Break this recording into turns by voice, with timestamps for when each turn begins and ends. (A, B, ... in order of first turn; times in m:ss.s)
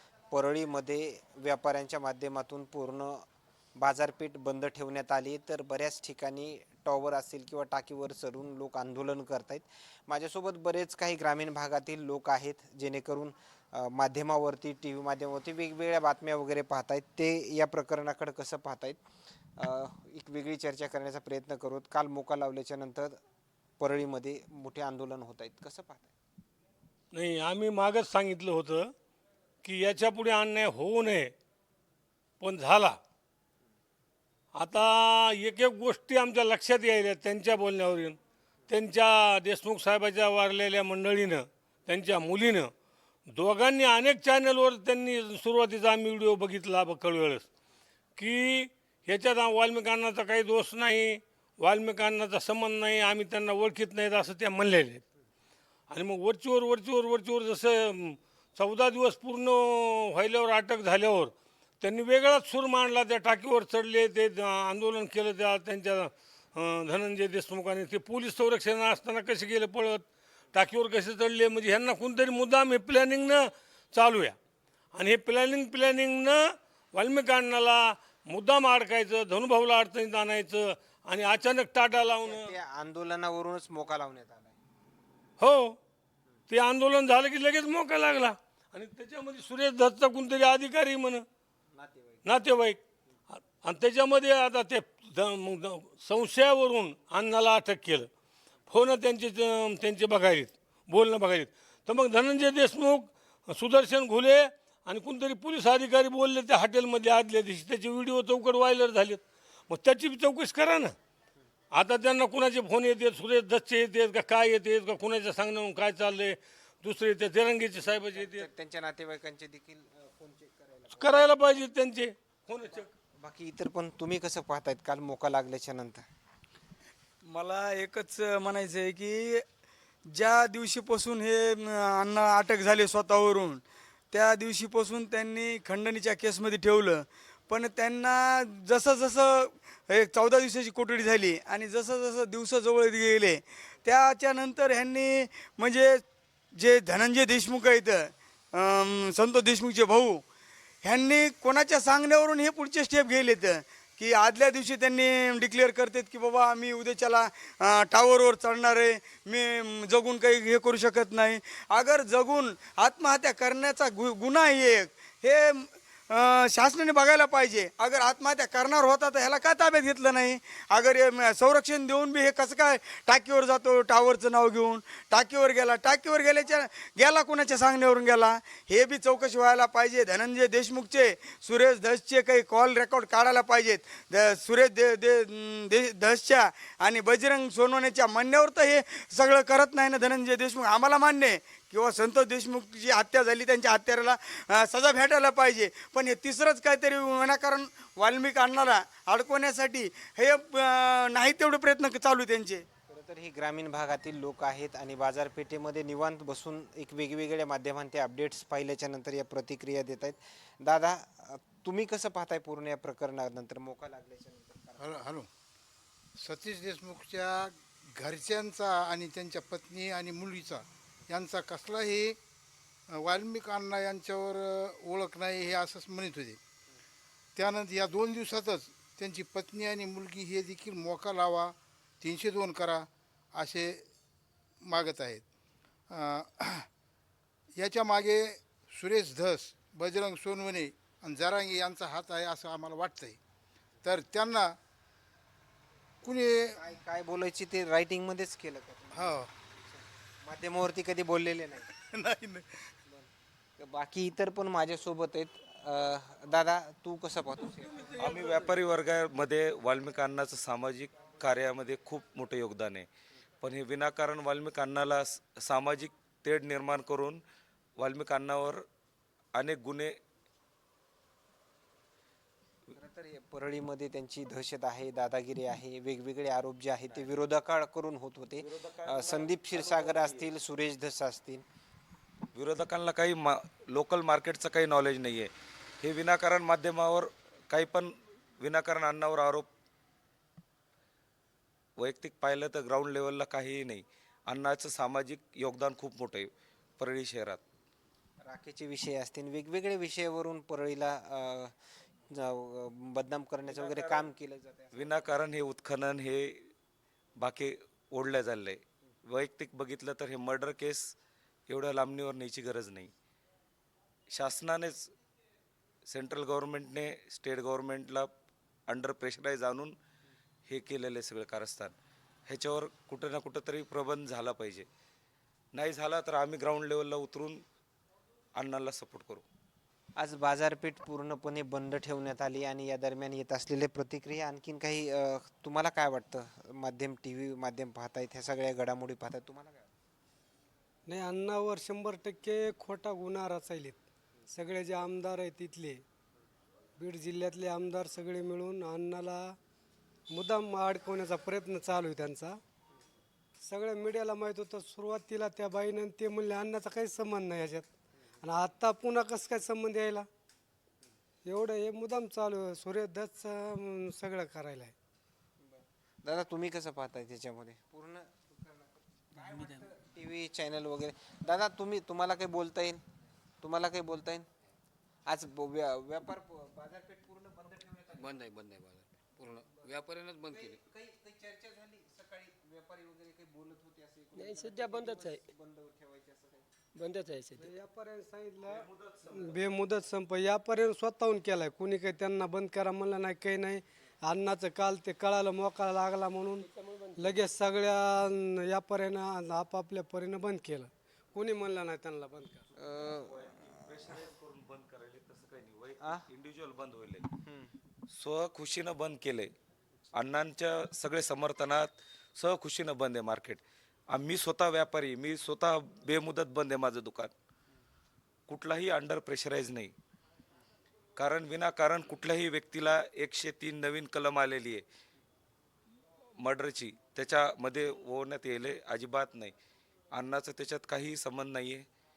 0:00.3-0:03.2 A
0:03.8-0:19.0 A
0:19.6-0:23.2 A
0:23.8-0:26.1 A
0:27.1-0:28.9 B
0:29.6-0:31.3 B
0:32.4-0:33.0 B
0:34.5-0:38.2 B
0:38.7-0:42.7 B
0:43.3-0:47.4 B
0:48.2-0:55.0 B
0:55.9-1:14.4 B
1:14.9-1:16.4 B
1:16.9-1:22.5 B
1:22.1-1:24.5 A
1:25.4-1:25.8 B
1:26.5-1:31.2 B
1:31.7-1:32.5 A
1:32.2-1:32.8 B
1:33.4-1:38.1 B
1:38.7-1:50.9 B
1:51.7-1:58.5 B
1:57.8-2:01.3 A
2:01.0-2:02.9 B
2:02.7-2:06.0 A
2:07.2-2:09.4 C
2:10.1-2:26.0 C
2:26.6-2:30.2 C
2:30.8-3:22.6 C
3:22.9-3:35.0 A
3:34.8-3:35.3 D
3:36.2-3:42.2 D
3:42.9-3:46.4 D
3:47.4-3:53.8 D
3:54.6-3:55.2 D
3:55.9-3:56.7 D
3:57.6-4:03.2 D
4:03.8-4:04.6 D
4:06.0-4:06.5 D
4:06.5-4:11.7 A
4:08.9-4:09.3 D
4:11.9-4:12.7 D
4:13.6-4:18.3 A
4:18.0-4:22.9 E
4:23.4-4:27.2 E
4:27.8-4:28.6 E
4:29.3-4:30.0 E
4:32.8-4:41.4 A
4:38.4-4:40.3 E
4:42.3-4:49.5 E
4:51.8-4:57.4 E
4:58.2-5:01.5 A
5:02.1-5:05.2 A
5:03.5-5:04.0 E
5:04.7-5:06.5 E
5:07.2-5:10.9 E
5:11.5-5:12.9 E
5:14.1-5:14.9 E
5:15.9-5:18.1 E
5:18.7-5:19.7 E
5:20.5-5:21.7 E
5:22.3-5:24.7 E
5:25.5-5:27.4 E
5:28.4-5:29.2 E
5:30.0-5:39.7 A
5:40.9-5:43.8 F
5:44.3-5:45.8 F
5:46.8-5:49.3 F
5:50.1-5:52.4 F
5:53.4-5:57.7 F
5:58.2-6:00.1 F
6:01.2-6:04.7 F
6:05.4-6:12.8 A
6:13.4-6:14.3 A
6:15.0-6:18.2 A
6:17.9-6:20.6 G
6:19.5-6:26.5 A
6:24.2-6:25.2 H
6:26.8-6:27.5 H
6:27.4-6:42.4 F
6:28.5-6:29.6 E
6:36.3-6:37.3 H
6:42.6-6:43.1 A
6:42.7-6:47.0 E
6:47.2-6:47.5 A
6:47.9-6:49.3 E
6:49.9-6:57.1 E
6:58.3-6:59.7 E
7:01.0-7:04.6 E
7:06.2-7:09.4 E
7:09.9-7:11.6 E